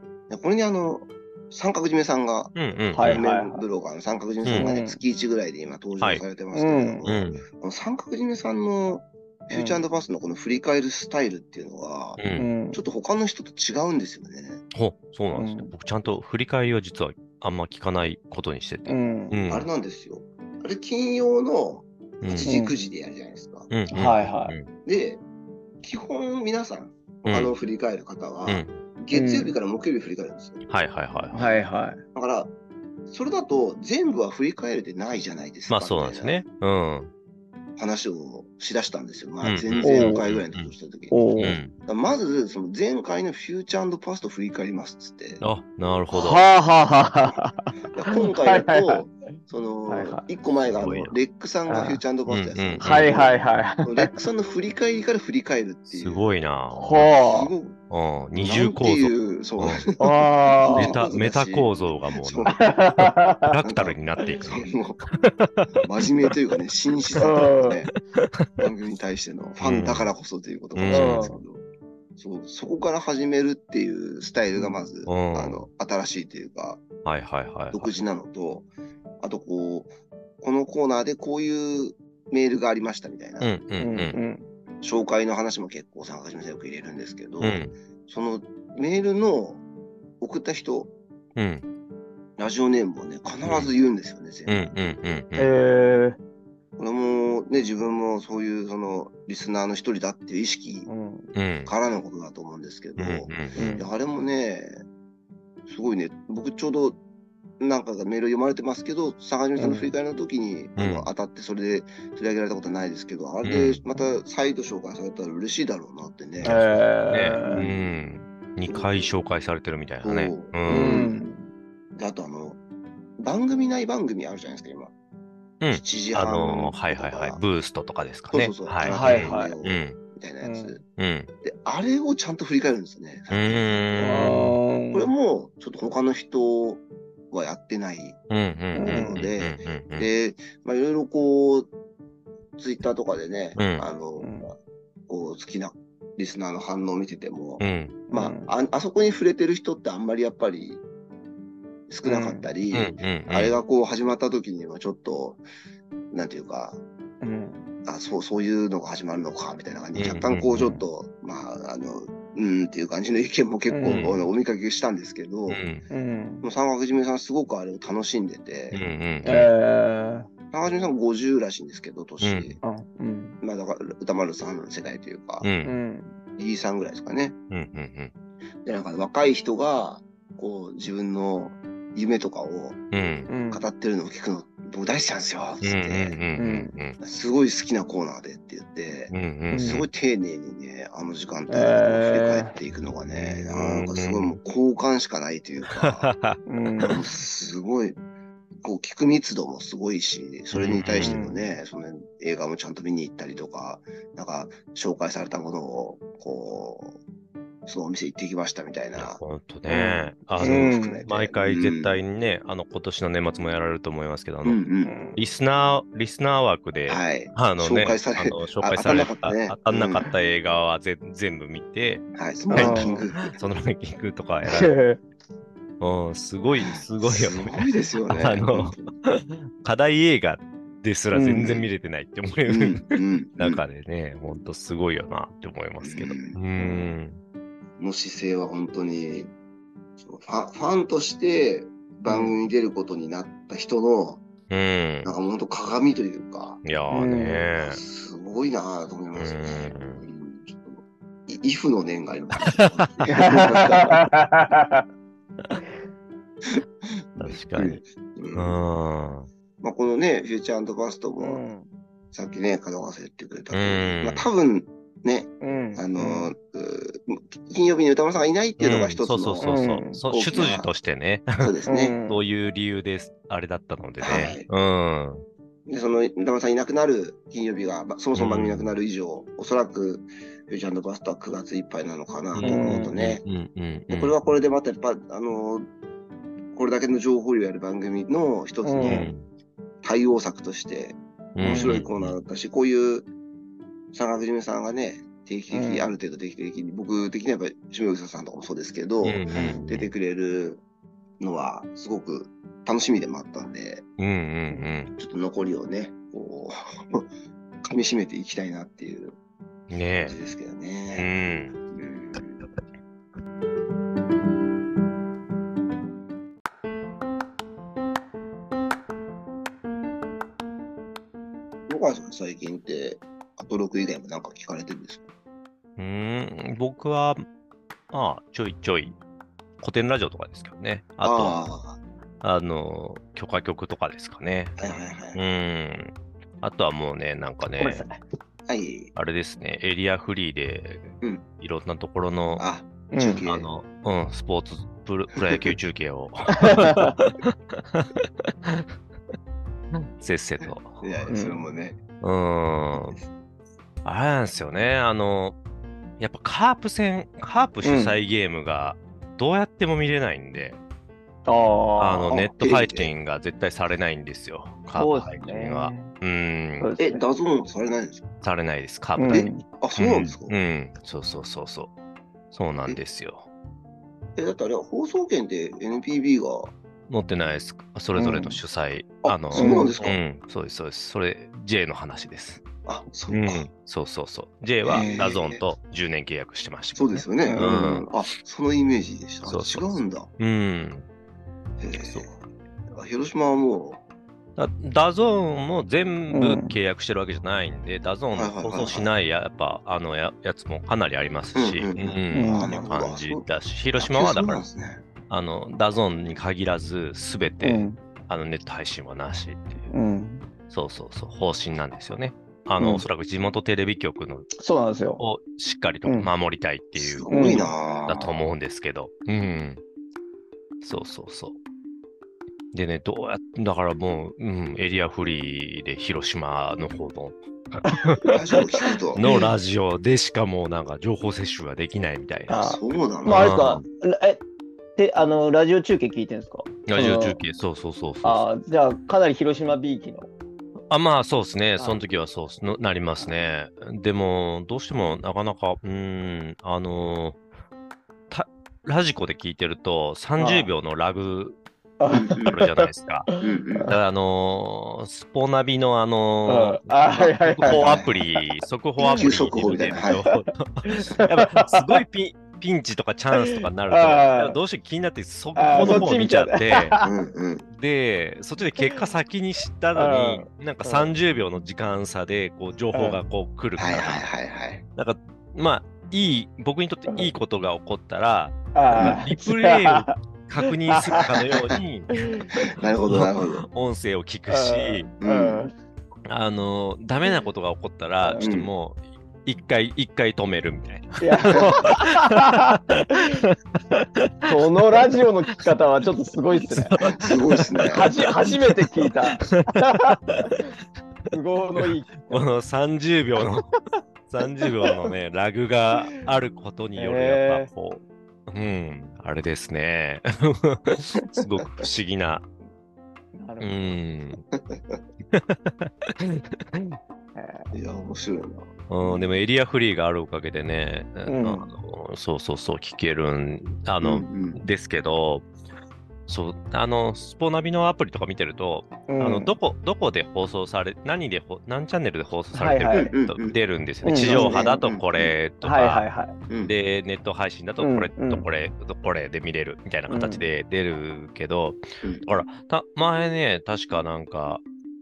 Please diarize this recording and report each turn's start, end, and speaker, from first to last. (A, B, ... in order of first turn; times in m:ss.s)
0:00.3-0:14.6 A
0:02.6-0:03.2 B
0:03.0-0:03.6 C
0:04.4-0:04.7 B
0:04.6-0:05.0 C
0:06.5-0:07.0 C
0:07.0-0:07.4 B
0:09.5-0:09.8 C
0:12.2-0:12.5 B
0:12.4-0:12.8 C
0:14.7-0:19.7 B
0:15.4-0:15.7 C
0:18.9-0:19.4 C
0:19.5-0:23.7 A
0:22.2-0:22.5 B
0:22.4-0:22.8 C
0:23.7-0:24.7 B
0:23.9-0:24.6 C
0:24.8-0:25.2 A
0:25.8-0:30.7 A
0:27.2-0:27.5 B
0:28.5-0:28.7 B
0:29.1-0:29.6 C
0:30.7-0:31.5 B
0:31.3-0:32.0 C
0:32.2-0:32.5 A
0:33.1-0:36.4 A
0:35.7-0:37.1 B
0:37.8-0:45.4 A
0:39.4-0:40.7 B
0:39.8-0:40.2 C
0:41.1-0:41.6 C
0:41.4-0:41.7 B
0:45.4-0:46.5 B
0:46.1-0:49.0 C
0:47.9-0:56.3 A
0:49.9-0:50.3 C
0:50.8-0:51.2 B
0:51.7-0:52.0 C
0:52.3-0:53.2 B
0:52.8-0:54.2 C
0:55.9-0:57.1 B
0:56.8-0:57.5 C
0:57.1-0:57.8 A
0:57.9-0:59.8 B
0:58.4-1:02.7 A
1:00.0-1:01.0 C
1:00.7-1:05.7 B
1:02.6-1:03.6 C
1:03.6-1:05.1 A
1:05.8-1:08.0 A
1:07.2-1:07.8 C
1:08.1-1:08.5 B
1:08.6-1:11.6 A
1:09.6-1:10.1 B
1:10.8-1:11.3 B
1:10.9-1:11.4 C
1:12.2-1:16.8 A
1:14.6-1:14.8 C
1:15.1-1:15.7 B
1:17.0-1:17.9 B
1:17.7-1:18.7 A
1:19.2-1:23.6 A
1:23.4-1:24.2 B
1:23.8-1:24.5 C
1:24.8-1:29.6 A
1:27.4-1:27.7 B
1:30.2-1:30.9 A
1:31.4-1:31.6 B
1:32.4-1:34.8 A
1:33.4-1:33.7 B
1:34.5-1:35.5 B
1:35.4-1:36.2 C
1:36.8-1:40.9 A
1:40.9-1:41.3 C
1:41.4-1:41.7 B
1:41.7-1:44.8 A
1:43.0-1:43.6 B
1:43.6-1:43.9 C
1:45.7-1:47.0 A
1:47.6-1:56.9 A
1:49.6-1:49.9 C
1:50.8-1:51.1 B
1:53.4-1:53.8 B
1:56.4-2:01.0 B
1:56.4-1:57.7 C
1:57.5-1:57.8 A
1:58.6-1:59.1 A
2:00.0-2:01.2 A
2:00.7-2:01.5 C
2:02.0-2:02.6 A
2:03.2-2:04.9 A
2:05.6-2:10.0 B
2:05.7-2:07.4 A
2:08.3-2:10.8 A
2:08.8-2:09.6 C
2:10.4-2:10.8 C
2:11.0-2:11.3 B
2:11.4-2:14.4 A
2:13.3-2:14.6 B
2:14.0-2:15.1 C
2:14.9-2:18.2 A
2:18.3-2:20.1 B
2:18.8-2:19.2 C
2:18.8-2:21.7 A
2:22.6-2:24.6 A
2:23.6-2:23.9 B
2:24.2-2:24.5 C
2:25.1-2:30.8 A
2:27.6-2:28.0 B
2:28.1-2:28.5 C
2:31.9-2:35.4 A
2:32.0-2:32.5 C
2:32.7-2:33.6 B
2:36.1-2:36.8 A
2:37.2-2:37.6 C
2:37.8-2:45.6 A
2:40.0-2:40.8 B
2:40.6-2:40.8 C
2:43.7-2:44.1 C
2:43.9-2:44.2 B
2:45.5-2:45.8 B
2:45.9-2:46.5 C
2:46.4-2:48.8 A
2:48.7-2:49.5 B
2:49.2-2:50.3 C
2:50.5-2:52.6 A
2:52.2-2:52.6 B
2:52.6-2:53.4 C
2:53.4-2:55.5 A
2:55.4-2:55.7 B
2:55.6-2:56.2 C
2:56.4-2:57.4 A
2:57.5-2:58.1 B
2:58.6-3:02.8 A
3:02.9-3:03.3 B
3:03.3-3:03.7 C
3:03.5-3:06.2 A
3:05.6-3:07.0 B
3:06.4-3:06.7 C
3:07.0-3:16.1 A
3:09.1-3:09.8 B
3:09.5-3:09.9 C
3:11.5-3:12.6 C
3:13.1-3:14.4 B
3:15.7-3:17.0 B
3:16.5-3:17.0 C
3:16.8-3:18.0 A
3:18.6-3:27.0 A
3:20.5-3:21.2 B
3:21.0-3:21.5 C
3:27.7-3:29.2 A
3:29.0-3:34.6 B
3:29.7-3:31.0 C
3:30.3-3:32.0 A
3:34.4-3:34.9 A
3:34.8-3:35.2 C
3:35.2-3:44.8 B
3:36.9-3:40.1 A
3:42.1-3:43.4 A
3:42.5-3:43.1 C
3:44.5-3:45.0 C
3:45.8-3:57.2 B
3:46.6-3:48.9 A
3:51.1-3:51.6 C
3:52.5-3:53.6 A
3:55.8-3:56.4 A
3:57.8-3:59.3 A
4:00.0-4:04.2 A
4:02.1-4:02.4 C
4:04.5-4:05.1 B
4:05.0-4:06.6 A
4:06.6-4:07.8 B
4:06.9-4:07.4 C
4:07.6-4:14.0 A
4:09.2-4:10.0 B
4:12.4-4:12.8 B
4:13.1-4:14.8 C
4:16.5-4:18.6 A
4:17.2-4:17.8 B
4:18.4-4:19.3 B
4:19.6-4:21.5 A
4:21.2-4:21.7 C
4:22.1-4:30.7 A
4:23.5-4:24.3 B
4:25.4-4:26.3 C
4:28.6-4:31.5 B
4:29.4-4:30.0 C
4:31.4-4:32.0 A
4:31.7-4:32.2 C
4:32.0-4:35.2 B
4:34.0-4:34.5 A
4:35.7-4:43.2 A
4:38.2-4:38.7 B
4:42.3-4:44.2 B
4:42.4-4:42.9 C
4:43.9-4:45.7 A
4:46.5-4:49.1 A
4:48.6-4:49.1 C
4:48.8-4:49.3 B
4:49.8-4:53.1 A
4:51.4-4:52.2 B
4:51.4-4:51.8 C
4:53.9-5:00.6 A
4:55.5-4:55.9 C
4:59.0-4:59.9 B
4:59.3-4:59.7 C
5:01.2-5:03.9 A
5:04.0-5:04.9 B
5:05.0-5:07.1 A
5:07.6-5:09.2 A
5:09.7-5:10.2 B
5:10.0-5:11.1 A
5:10.9-5:11.6 B
5:11.7-5:12.4 A
5:21.7-5:25.1 A
5:25.8-5:27.2 B
5:27.9-5:29.0 B
5:29.6-5:31.4 B
5:31.0-5:31.8 A
5:32.2-5:34.6 B
5:34.6-5:35.2 A
5:35.1-5:37.8 B
5:37.6-5:38.0 C
5:38.5-5:38.9 A
5:39.0-5:42.5 B
5:41.0-5:41.3 A
5:42.4-5:43.5 A
5:42.9-5:43.2 C
5:43.2-5:47.9 B
5:45.2-5:45.5 A
5:46.4-5:47.0 C
5:49.7-5:50.8 B
5:50.8-5:51.8 A
5:51.1-5:51.4 C
5:52.0-5:53.0 B
5:52.8-5:53.1 A
5:53.8-5:55.4 B
5:56.0-6:00.6 B
5:57.6-5:58.0 C
6:01.3-6:02.2 C
6:01.8-6:06.7 B
6:02.1-6:02.9 A
6:04.8-6:05.9 C
6:06.6-6:07.0 C
6:06.8-6:08.1 A
6:08.2-6:11.7 B
6:09.0-6:09.4 C
6:09.1-6:10.4 A
6:12.3-6:13.3 B
6:14.2-6:16.5 A
6:16.9-6:22.4 B
6:18.0-6:18.4 C
6:19.0-6:20.0 A
6:19.4-6:19.8 C
6:22.7-6:23.4 A
6:23.1-6:27.9 B
6:24.6-6:25.4 A
6:26.8-6:30.1 A
6:27.2-6:27.5 C
6:29.2-6:30.9 B
6:31.6-6:32.2 A
6:31.8-6:32.1 B
6:32.7-6:33.8 A
6:34.4-6:44.4 B
6:36.1-6:36.6 C
6:38.1-6:38.9 A
6:41.4-6:44.8 A
6:42.1-6:42.5 C
6:45.1-6:49.7 B
6:47.4-6:47.8 C
6:49.7-6:50.2 C
6:50.5-6:54.3 B
6:52.6-6:52.8 C
6:54.4-6:55.0 C
6:55.0-6:59.6 B
6:55.9-6:56.1 C
6:56.8-6:58.2 A
6:57.1-6:57.5 C
7:00.6-7:01.4 B
7:02.5-7:08.2 B
7:07.7-7:08.4 C
7:08.1-7:09.1 A
7:08.9-7:13.6 B
7:09.0-7:09.3 C
7:12.3-7:14.2 C
7:12.3-7:13.4 A
7:14.8-7:17.2 C
7:16.7-7:18.3 B
7:18.0-7:20.1 C
7:20.7-7:27.2 B
7:28.1-7:31.4 B
7:30.2-7:30.5 C
7:31.8-7:33.7 C
7:31.9-7:32.4 A
7:32.2-7:33.1 B
7:33.2-7:33.7 A
7:33.6-7:46.8 B
7:36.3-7:37.8 C
7:37.4-7:38.0 A
7:38.8-7:39.1 C
7:38.8-7:40.0 A
7:40.0-7:41.8 C
7:43.1-7:44.4 C
7:45.4-7:47.0 C
7:46.8-7:47.5 A
7:47.5-7:54.1 B
7:49.8-7:50.9 C
7:52.7-7:53.0 C
7:53.6-7:54.6 A
7:54.8-8:02.2 B
7:56.9-7:57.1 C
7:58.6-8:00.0 C
8:00.7-8:01.1 C
8:01.2-8:01.6 A
8:01.9-8:02.4 C
8:02.4-8:03.4 A
8:02.9-8:04.9 B
8:04.3-8:05.5 C
8:05.0-8:05.5 A
8:06.1-8:14.3 B
8:08.0-8:08.3 C
8:08.2-8:08.5 A
8:11.0-8:13.2 C
8:14.3-8:16.8 C
8:16.4-8:20.4 B
8:16.9-8:17.9 A
8:17.7-8:20.5 C
8:21.1-8:22.3 C
8:21.6-8:23.5 B
8:24.1-8:32.3 B
8:24.4-8:24.7 C
8:26.8-8:27.5 C
8:33.2-8:33.7 C
8:33.4-8:34.2 B
8:34.3-8:34.8 A
8:35.1-8:36.8 B
8:37.2-8:37.5 C
8:37.5-8:39.1 A
8:38.7-8:45.3 B
8:41.1-8:41.5 C
8:43.8-8:44.4 A
8:46.1-8:55.9 B
8:48.9-8:49.4 C
8:52.4-8:52.9 C
8:52.7-8:53.4 A
8:53.8-8:54.6 C
8:54.0-8:55.2 A
8:55.4-8:56.2 C
8:56.3-8:56.5 A
8:56.4-9:04.4 B
8:57.6-8:58.3 C
8:59.9-9:00.2 C
9:01.8-9:02.1 A